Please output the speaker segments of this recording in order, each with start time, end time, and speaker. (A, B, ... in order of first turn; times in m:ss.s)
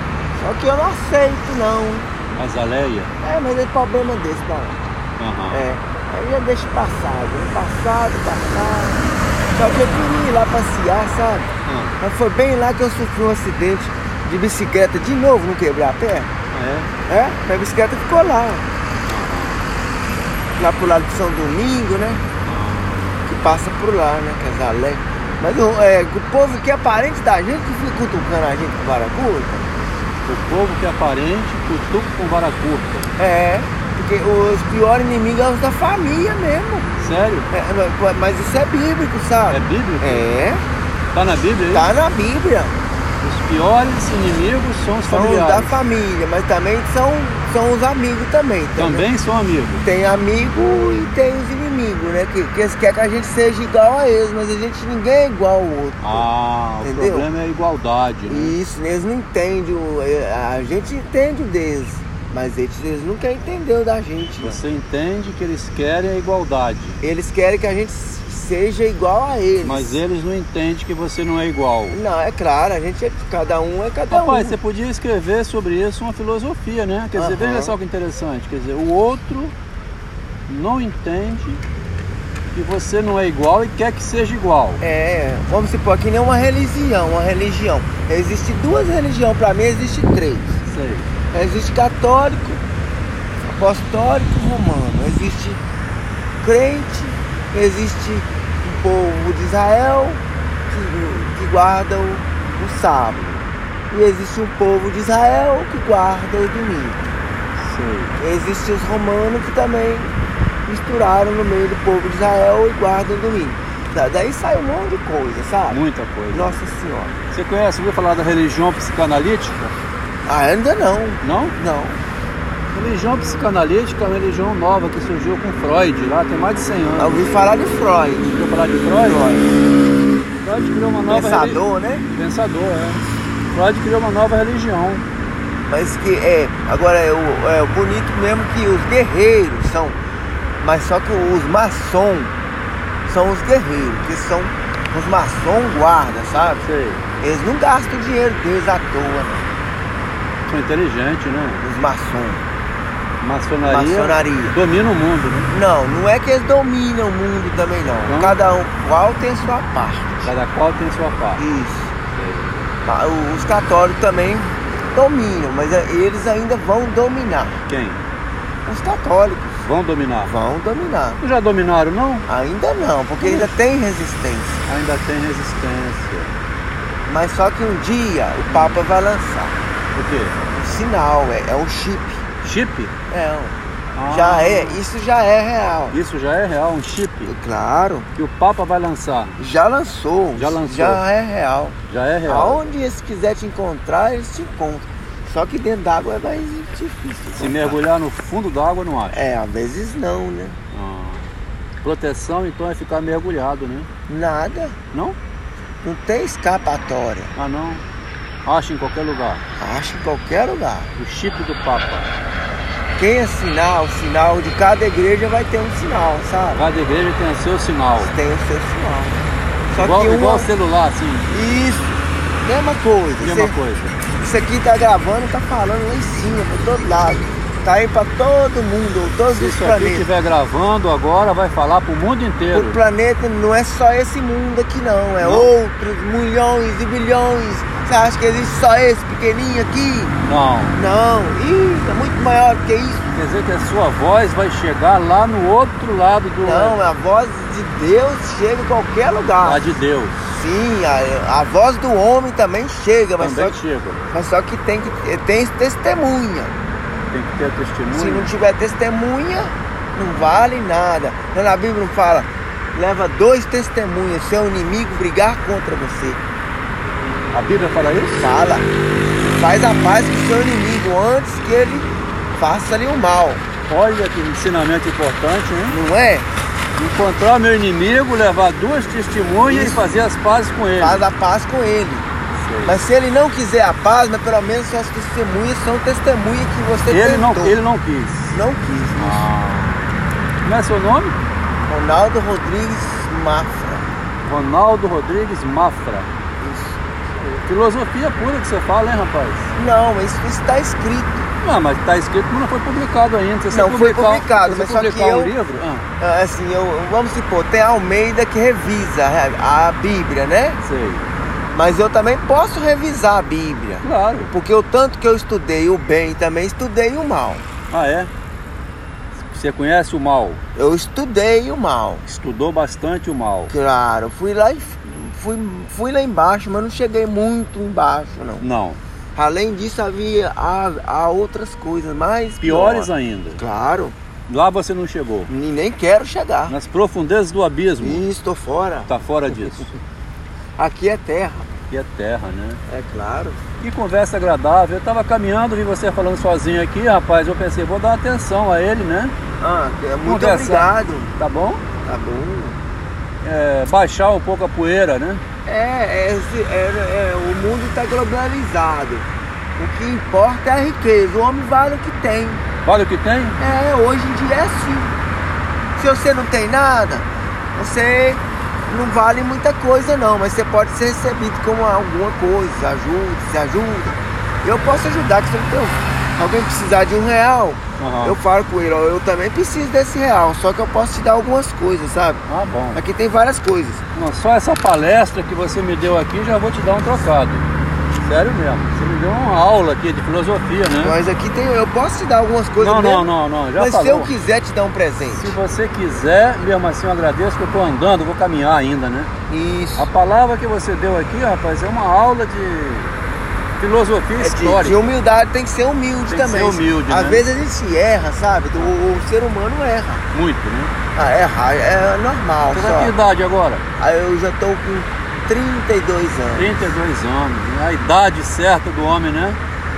0:00.4-0:02.1 A
0:02.4-0:03.1 B
0:03.2-0:04.8 A
0:05.2-0:05.7 B
0:05.5-0:09.0 A
0:09.6-0:16.3 A
0:11.6-0:12.0 B
0:16.5-0:16.9 B
0:17.1-0:18.7 A
0:19.1-0:19.7 B
0:20.6-0:22.2 A
0:22.4-0:23.2 B
0:23.3-0:29.8 A
0:30.3-0:33.1 B
0:33.2-0:40.6 A
0:37.0-0:37.5 B
0:39.5-0:40.3 B
0:41.2-0:41.8 B
0:41.7-0:42.8 A
0:43.2-0:45.8 B
0:45.0-0:49.1 A
0:48.8-0:49.8 B
0:49.8-0:56.3 A
0:56.0-0:58.6 B
0:56.8-0:57.3 A
0:58.3-1:04.6 A
1:04.4-1:07.0 B
1:07.0-1:10.0 A
1:09.6-1:12.0 B
1:11.9-1:14.6 A
1:14.1-1:19.5 B
1:17.2-1:17.8 A
1:20.5-1:21.6 B
1:22.5-1:24.8 B
1:24.8-1:30.6 A
1:30.7-1:31.1 B
1:31.3-1:32.6 A
1:33.4-1:35.6 A
1:36.4-1:47.0 A
1:47.6-1:48.2 B
1:48.2-1:50.1 A
1:50.7-1:55.8 A
1:55.7-1:56.6 B
1:56.3-1:57.2 A
1:57.3-1:59.7 B
2:00.3-2:02.0 A
2:01.2-2:01.6 B
2:02.7-2:07.2 B
2:07.0-2:08.4 A
2:08.3-2:09.3 B
2:09.0-2:09.7 A
2:10.4-2:15.0 B
2:11.1-2:12.0 A
2:15.7-2:20.0 A
2:20.6-2:22.3 A
2:23.1-2:26.7 A
2:26.6-2:27.0 B
2:27.2-2:29.5 A
2:30.5-2:31.6 B
2:31.6-2:32.4 A
2:33.2-2:35.5 B
2:33.7-2:34.6 A
2:35.5-2:40.3 A
2:38.0-2:38.4 B
2:40.2-2:41.4 B
2:41.4-2:41.9 A
2:42.2-2:42.6 B
2:42.8-2:47.6 A
2:47.7-2:48.0 B
2:48.7-2:49.6 A
2:49.6-2:50.3 B
2:50.2-2:51.2 A
2:51.2-2:52.3 B
2:52.3-2:54.6 A
2:53.2-2:53.5 B
2:54.7-2:56.3 B
2:57.1-2:59.6 A
2:58.5-2:58.9 B
3:00.0-3:00.4 B
3:00.5-3:02.2 A
3:02.4-3:02.9 B
3:03.1-3:03.6 A
3:04.0-3:04.8 B
3:04.1-3:06.0 A
3:05.9-3:07.3 B
3:07.2-3:08.1 A
3:08.2-3:09.4 B
3:09.4-3:17.8 A
3:10.4-3:11.0 B
3:11.9-3:12.7 B
3:17.4-3:19.3 B
3:19.1-3:20.6 A
3:20.7-3:21.3 B
3:21.8-3:23.9 B
3:24.1-3:24.8 A
3:25.8-3:27.3 A
3:27.4-3:27.8 B
3:28.4-3:29.4 B
3:29.6-3:30.9 A
3:31.0-3:32.1 B
3:33.0-3:36.6 A
3:36.5-3:38.1 B
3:38.0-3:40.5 A
3:39.8-3:41.3 B
3:41.3-3:43.6 A
3:43.2-3:44.0 B
3:44.2-3:50.1 A
3:49.4-3:52.8 B
3:52.5-4:00.2 A
3:55.2-3:55.5 B
4:00.2-4:00.8 B
4:00.7-4:03.1 A
4:03.2-4:06.8 B
4:06.4-4:09.6 A
4:09.4-4:10.2 B
4:10.3-4:13.6 A
4:13.2-4:14.0 B
4:14.1-4:16.5 A
4:17.1-4:18.3 B
4:17.9-4:26.2 A
4:27.3-4:28.3 B
4:28.2-4:28.7 A
4:29.2-4:33.4 A
4:33.7-4:35.8 B
4:35.7-4:36.3 A
4:36.8-4:41.0 B
4:39.4-4:39.9 A
4:40.8-4:42.1 A
4:42.4-4:42.8 B
4:42.6-4:47.6 A
4:46.9-4:48.4 B
4:48.3-4:49.3 A
4:49.0-4:51.2 B
4:51.7-4:53.9 A
4:54.2-4:56.1 B
4:56.4-4:57.4 A
4:57.4-4:59.5 B
4:59.6-5:01.3 A
5:01.4-5:05.9 B
5:03.5-5:05.3 A
5:06.0-5:10.6 A
5:10.6-5:11.1 B
5:11.5-5:17.4 A
5:13.8-5:14.3 B
5:17.7-5:18.1 B
5:19.2-5:20.4 B
5:20.6-5:22.0 A
5:22.1-5:23.5 B
5:23.5-5:28.5 A
5:28.4-5:28.8 B
5:29.2-5:34.0 A
5:32.4-5:33.4 B
5:34.3-5:35.3 B
5:35.3-5:36.6 A
5:36.5-5:38.0 B
5:37.8-5:38.9 A
5:38.9-5:39.8 B
5:40.6-5:41.6 A
5:41.7-5:42.6 B
5:42.7-5:43.4 A
5:43.6-5:49.1 B
5:49.4-5:51.1 A
5:50.0-5:51.6 B
5:51.8-5:52.6 A
5:53.2-5:55.2 B
5:55.4-5:59.1 A
5:59.6-6:02.4 A
6:02.6-6:03.4 B
6:03.4-6:05.0 A
6:05.8-6:23.8 A
6:17.8-6:18.2 B
6:22.3-6:22.8 B
6:23.9-6:27.5 B
6:28.0-6:31.0 B
6:30.8-6:35.3 A
6:32.6-6:34.1 B
6:35.1-6:39.1 B
6:39.3-6:39.9 A
6:39.8-6:42.9 B
6:43.6-6:44.9 B
6:44.2-6:50.0 A
6:46.1-6:47.2 B
6:50.1-6:50.7 B
6:51.0-6:53.0 A
6:52.5-6:53.6 B
6:53.8-6:56.6 A
6:56.4-6:59.4 B